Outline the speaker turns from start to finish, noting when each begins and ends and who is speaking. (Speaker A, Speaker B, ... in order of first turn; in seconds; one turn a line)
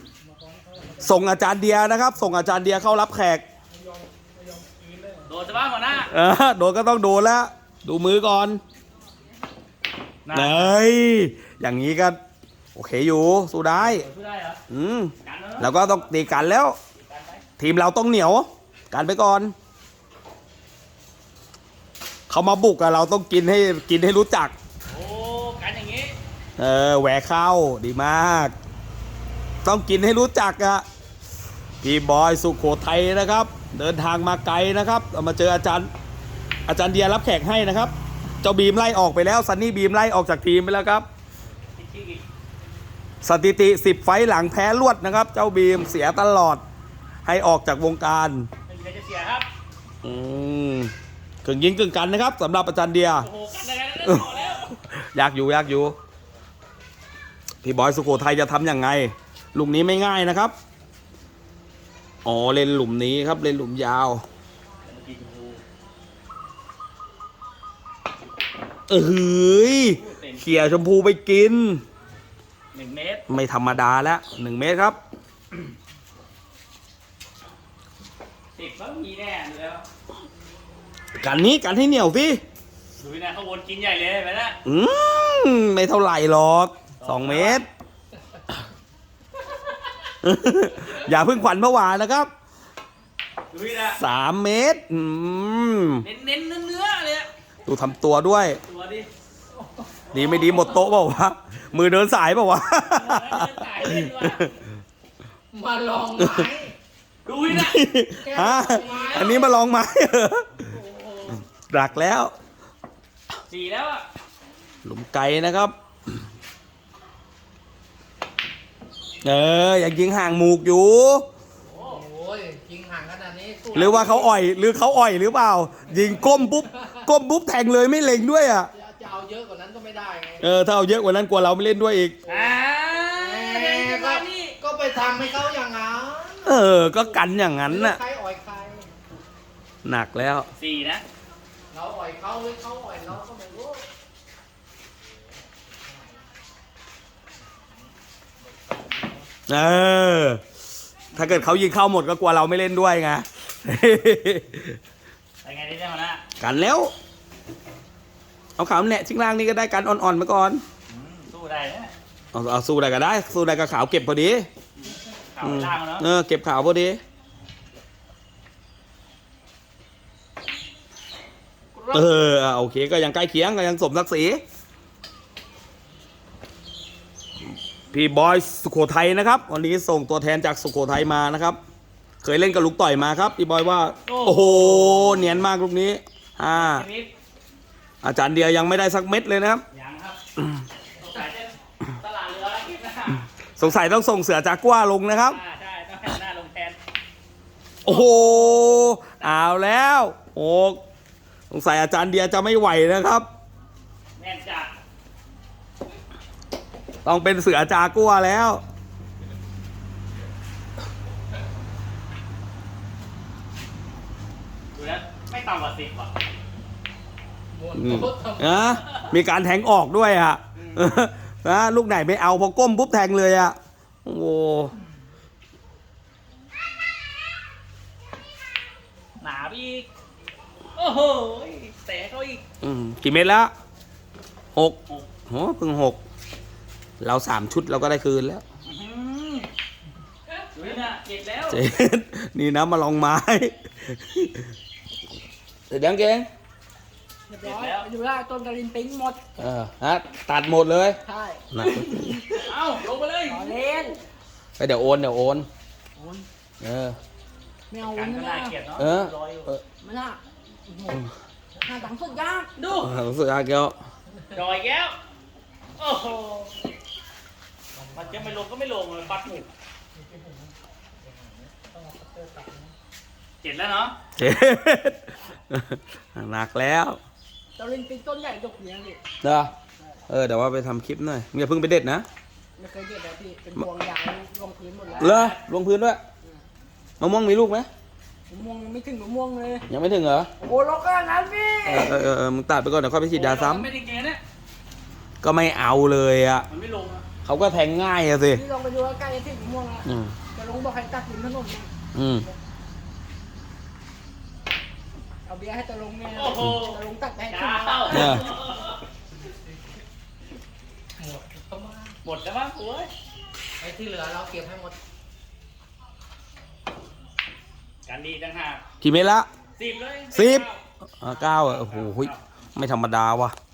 Speaker A: 0.2-1.5
Speaker B: 1.0-3.4
Speaker A: 3.7-5.3
Speaker C: 5.3-6.1
Speaker B: 6.1-8.6
Speaker C: 10.2-10.8
Speaker B: 10.3-12.2
Speaker B: 12.7-14.0
Speaker C: 13.8-14.6
Speaker B: 14.7-16.8
Speaker C: 15.2-16.1
Speaker C: 16.9-17.4
Speaker B: 17.6-19.5
Speaker B: 22.3-24.5
Speaker C: 24.9-26.1
Speaker B: 26.6-28.5
Speaker B: 29.6-30.8
Speaker B: 31.8-35.9
Speaker B: 36.7-41.0
Speaker C: 41.8-42.2
Speaker B: 43.2-46.6
Speaker B: 47.2-48.5
Speaker C: 48.6-49.5
Speaker B: 50.0-50.9
Speaker B: 51.4-53.3
Speaker C: 53.2-54.7
Speaker B: 54.0-55.9
Speaker B: 57.6-60.5
Speaker B: 62.2-64.2
Speaker C: 64.8-65.6
Speaker B: 68.9-71.8
Speaker C: 69.5-70.8
Speaker C: 72.7-73.2
Speaker B: 73.3-75.0
Speaker C: 78.5-79.8
Speaker B: 81.2-82.4
Speaker C: 83.0-84.6
Speaker B: 84.6-87.6
Speaker C: 87.0-87.6
Speaker B: 90.2-92.3
Speaker C: 93.5-94.0
Speaker B: 93.9-96.0
Speaker C: 96.0-97.3
Speaker B: 97.7-98.6
Speaker C: 98.6-99.1
Speaker C: 100.1-100.8
Speaker B: 100.1-104.5
Speaker C: 102.8-104.6
Speaker D: 105.5-106.7
Speaker C: 107.2-107.8
Speaker B: 107.5-110.5
Speaker D: 108.2-109.6
Speaker C: 108.7-109.4
Speaker C: 110.6-111.4
Speaker B: 111.7-112.3
Speaker C: 113.5-114.1
Speaker B: 114.8-115.7
Speaker B: 119.2-121.2
Speaker C: 121.6-122.0
Speaker D: 121.8-124.3
Speaker B: 123.7-128.7
Speaker D: 125.9-127.0
Speaker D: 128.7-130.4
Speaker B: 130.4-132.2
Speaker C: 132.3-134.5
Speaker D: 133.1-136.8
Speaker B: 136.4-138.0
Speaker D: 137.6-138.9
Speaker B: 139.8-140.5
Speaker C: 140.5-141.0
Speaker D: 141.7-143.8
Speaker D: 145.7-146.2
Speaker D: 148.7-149.0
Speaker B: 149.5-150.4
Speaker C: 151.1-151.5
Speaker B: 151.1-154.8
Speaker C: 155.4-156.2
Speaker B: 156.4-156.9
Speaker B: 158.6-160.6
Speaker C: 160.9-161.9
Speaker B: 162.3-164.5
Speaker C: 164.8-166.1
Speaker B: 165.4-167.0
Speaker C: 171.7-172.1
Speaker B: 171.9-174.4
Speaker B: 177.9-181.6
Speaker B: 182.2-186.8
Speaker C: 184.1-185.4
Speaker C: 186.5-187.1
Speaker B: 188.0-189.6
Speaker C: 189.7-190.2
Speaker C: 190.9-193.3
Speaker B: 193.6-195.4
Speaker C: 195.2-196.8
Speaker B: 197.8-200.8
Speaker C: 197.8-199.3
Speaker B: 201.5-203.2
Speaker C: 204.2-204.8
Speaker B: 207.0-208.6
Speaker C: 214.7-216.2
Speaker D: 217.5-218.6
Speaker B: 217.8-224.7
Speaker C: 229.2-229.9
Speaker C: 230.8-232.4
Speaker B: 232.6-233.5
Speaker B: 234.5-236.0
Speaker B: 237.0-238.4
Speaker C: 238.6-239.5
Speaker C: 240.5-241.6
Speaker B: 241.5-244.4
Speaker B: 245.7-246.3
Speaker A: 247.3-249.2
Speaker C: 247.4-247.9
Speaker B: 249.4-251.0
Speaker A: 251.0-252.5
Speaker B: 251.5-252.1
Speaker C: 252.3-253.5
Speaker A: 253.3-254.0
Speaker B: 254.6-255.5
Speaker A: 256.0-256.2
Speaker B: 256.6-257.0
Speaker A: 257.7-258.6
Speaker C: 257.9-259.5
Speaker B: 258.8-259.6
Speaker A: 259.8-261.1
Speaker A: 261.6-262.5
Speaker C: 262.6-262.9
Speaker B: 262.8-263.7
Speaker C: 264.3-264.9
Speaker C: 265.8-266.5
Speaker D: 267.7-268.4
Speaker C: 267.9-269.5
Speaker D: 269.9-271.8
Speaker A: 271.8-272.7
Speaker C: 273.4-273.9
Speaker B: 274.2-277.0
Speaker A: 277.6-279.0
Speaker B: 279.2-279.5
Speaker B: 280.1-282.1
Speaker A: 282.6-285.2
Speaker C: 284.9-285.4
Speaker B: 285.0-286.0
Speaker B: 287.0-287.7
Speaker A: 288.3-289.6
Speaker B: 289.7-290.3
Speaker A: 290.4-292.1
Speaker B: 291.6-293.7
Speaker C: 293.1-294.2
Speaker B: 295.2-296.5
Speaker C: 296.5-297.0
Speaker B: 297.2-298.4
Speaker A: 298.3-301.7
Speaker B: 299.9-300.1
Speaker B: 301.9-302.3
Speaker A: 305.2-308.2
Speaker C: 306.1-308.8
Speaker B: 307.9-308.2
Speaker D: 311.0-312.0
Speaker C: 312.0-312.9
Speaker D: 313.6-314.8
Speaker C: 317.9-318.6
Speaker B: 318.8-319.3
Speaker C: 319.6-320.6
Speaker B: 320.1-320.5
Speaker B: 321.0-323.3
Speaker C: 321.1-322.2